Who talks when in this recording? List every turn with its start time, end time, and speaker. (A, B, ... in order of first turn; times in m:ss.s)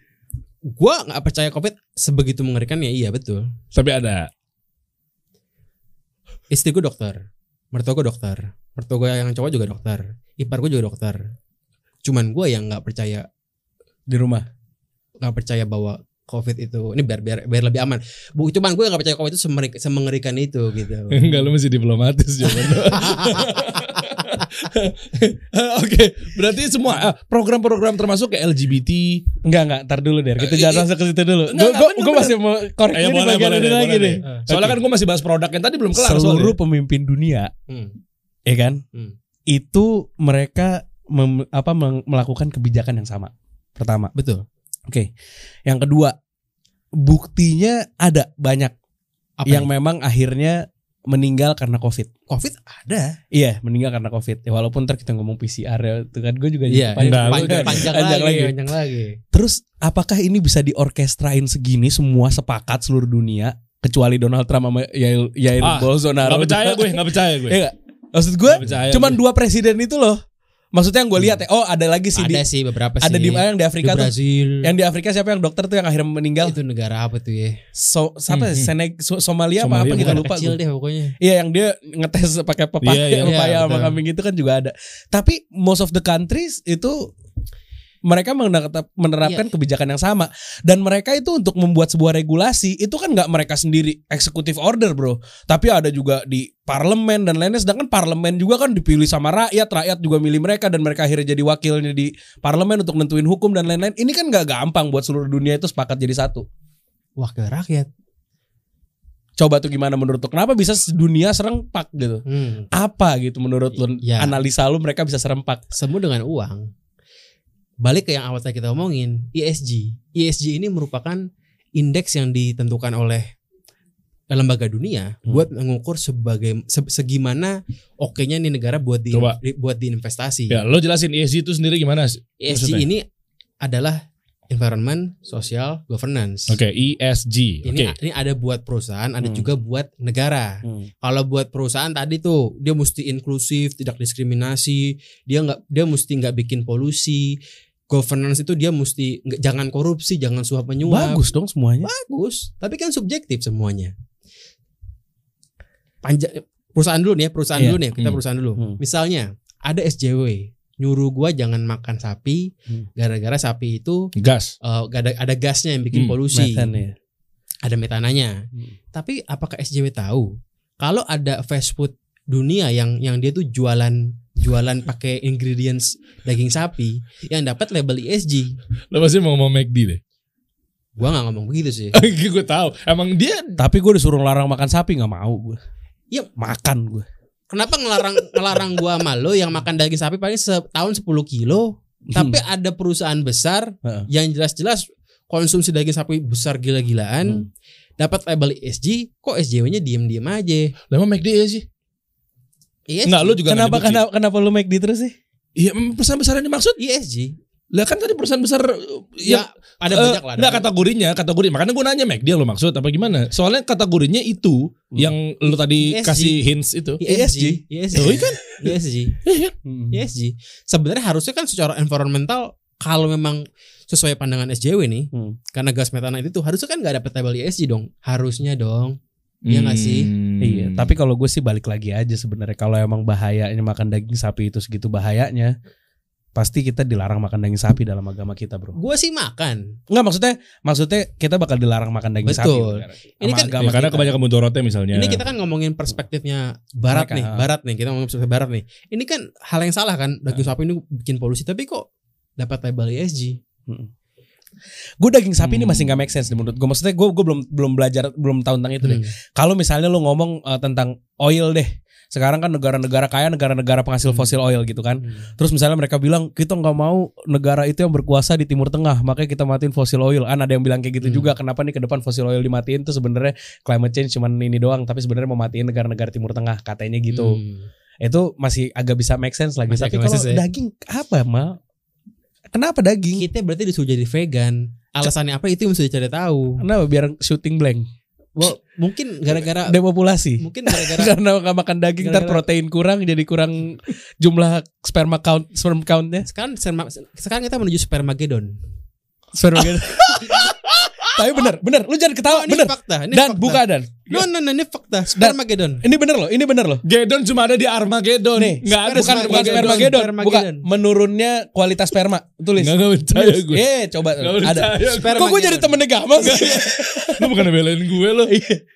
0:00.8-0:03.5 A
0:03.7-0:04.3 B
0:06.5-0:11.2 A
0:12.0-0:13.3 A
0:14.1-0:14.4 C
0:15.2-0:21.2 A
0:21.1-0:29.2 B
0:22.6-0:24.5 A
0:29.4-0:34.8 C
0:30.4-0:30.9 B
0:31.5-0:32.4 B
0:32.9-0:36.6 B
0:35.9-0:37.5 C
0:37.7-0:37.9 A
0:38.5-0:38.8 C
0:39.5-0:44.1 C
0:44.1-0:44.4 A
0:45.7-0:46.1 C
0:47.0-0:48.7 C
0:49.4-0:49.7 A
0:49.5-0:52.1 C
0:52.3-0:53.1 A
0:53.3-0:58.5 C
0:56.7-0:59.2 A
0:57.0-0:57.9 B
0:59.3-1:10.2 C
1:05.6-1:07.6 B
1:08.5-1:09.2 B
1:10.7-1:12.4 C
1:12.2-1:14.7 A
1:13.0-1:14.1 C
1:14.6-1:16.6 C
1:16.4-1:17.6 A
1:17.8-1:20.6 C
1:18.3-1:18.7 B
1:19.6-1:20.2 B
1:19.9-1:21.1 A
1:21.2-1:27.1 C
1:22.8-1:23.3 B
1:23.2-1:24.0 A
1:28.1-1:46.4 C
1:29.2-1:29.5 A
1:47.2-1:47.9 A
1:49.4-1:55.6 C
1:52.3-1:52.7 A
1:54.0-1:54.4 A
1:55.7-1:56.6 A
1:57.8-2:01.2 A
2:01.8-2:03.2 A
2:04.3-2:10.6 A
2:09.1-2:09.4 B
2:10.5-2:12.8 B
2:12.4-2:13.0 A
2:13.6-2:16.6 A
2:16.5-2:18.0 B
2:17.6-2:27.4 A
2:19.2-2:19.5 C
2:27.9-2:31.2 A
2:30.9-2:31.9 C
2:31.8-2:33.9 A
2:36.0-2:44.1 A
2:44.2-2:44.5 B
2:44.6-2:46.7 A
2:46.3-2:46.9 C
2:47.6-2:48.3 A
2:48.9-2:50.3 A
2:50.8-2:58.5 A
2:58.9-3:00.0 B
3:01.0-3:02.0 A
3:01.9-3:03.5 B
3:03.6-3:05.6 C
3:06.4-3:07.0 C
3:07.5-3:17.5 A
3:12.1-3:12.4 C
3:18.0-3:20.7 A
3:20.9-3:21.6 B
3:22.9-3:23.4 A
3:23.0-3:24.0 B
3:23.5-3:25.1 C
3:25.6-3:26.8 B
3:26.8-3:27.3 A
3:27.7-3:37.0 B
3:29.2-3:30.6 A
3:35.4-3:36.4 A
3:37.0-3:39.2 A
3:37.0-3:38.2 C
3:38.0-3:39.5 B
3:39.6-3:39.9 C
3:39.9-3:49.0 A
3:49.4-3:51.0 B
3:49.5-3:50.1 A
3:50.4-3:55.5 C
3:56.4-3:58.7 C
3:58.7-3:59.7 A
3:59.9-4:04.1 C
4:02.2-4:03.6 A
4:03.6-4:05.2 B
4:04.9-4:11.8 A
4:06.9-4:07.5 C
4:12.4-4:13.4 A
4:15.0-4:37.4 C
4:15.5-4:15.9 B
4:18.8-4:19.1 A
4:24.0-4:24.3 A
4:31.0-4:31.3 A
4:37.1-4:37.7 A
4:38.0-4:41.6 C
4:39.7-4:40.4 A
4:42.5-4:43.2 C
4:43.2-4:46.6 A
4:46.6-4:47.8 C
4:48.4-4:49.8 A
4:49.4-4:56.3 C
4:50.4-4:51.1 A
4:52.0-4:52.4 A
4:56.2-4:58.5 A
4:59.4-5:00.5 C
4:59.9-5:00.5 A
5:00.1-5:01.0 B
5:01.1-5:04.1 C
5:02.3-5:05.8 A
5:05.2-5:06.8 C
5:06.8-5:10.0 B
5:08.4-5:17.4 C
5:08.8-5:10.6 A
5:12.6-5:13.6 B
5:14.2-5:15.2 B
5:14.9-5:15.8 A
5:16.2-5:18.3 B
5:18.3-5:18.6 C